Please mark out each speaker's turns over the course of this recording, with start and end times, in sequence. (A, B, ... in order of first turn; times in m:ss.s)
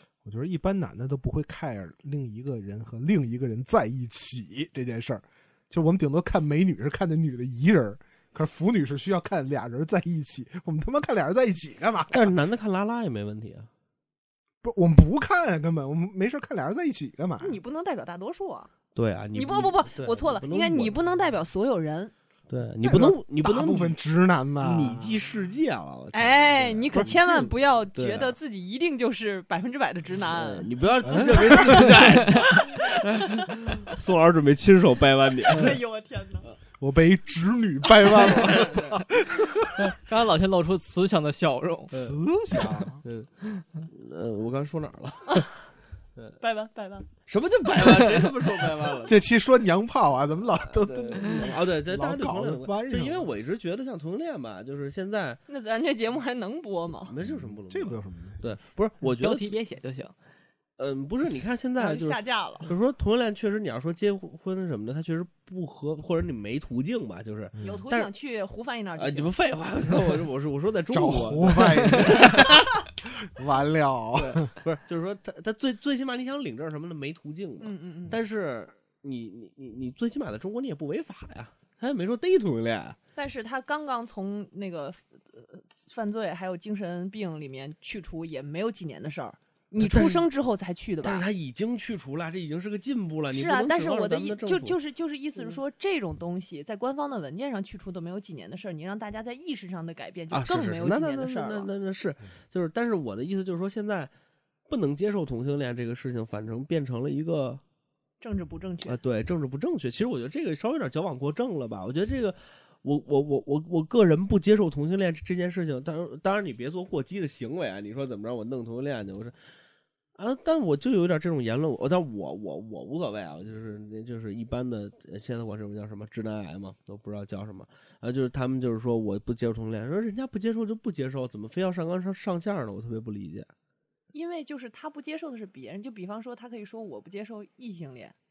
0:00.2-0:12.3 A
0:12.1-0:13.7 B
0:14.6-0:17.6 A
0:17.4-0:18.7 C
0:18.9-0:21.0 B
0:19.3-0:22.1 C
0:22.5-0:24.0 B
0:22.8-0:25.2 A
0:24.6-0:28.3 B
0:26.1-0:33.5 C
0:30.2-0:35.8 B
0:31.0-0:32.1 A
0:35.4-0:36.5 C
0:36.8-0:39.9 A
0:38.0-0:38.9 B
0:39.8-0:41.9 D
0:41.9-0:43.0 A
0:41.9-0:45.5 B
0:46.4-0:47.1 C
0:47.3-0:49.2 B
0:49.0-0:53.3 A
0:50.7-0:55.4 B
0:55.5-0:57.1 C
0:57.1-0:59.5 B
0:57.2-0:58.5 A
0:59.0-1:00.1 D
1:00.8-1:08.1 B
1:01.8-1:02.7 C
1:07.6-1:09.3 C
1:09.0-1:12.7 B
1:10.9-1:14.5 A
1:14.1-1:23.0 B
1:17.6-1:18.2 C
1:23.2-1:31.3 C
1:29.8-1:30.3 B
1:31.0-1:34.8 B
1:33.3-1:41.7 C
1:40.3-1:44.1 B
1:44.7-1:47.6 B
1:48.2-1:49.0 C
1:48.8-1:59.4 B
2:00.2-2:13.5 B
2:14.1-2:18.1 C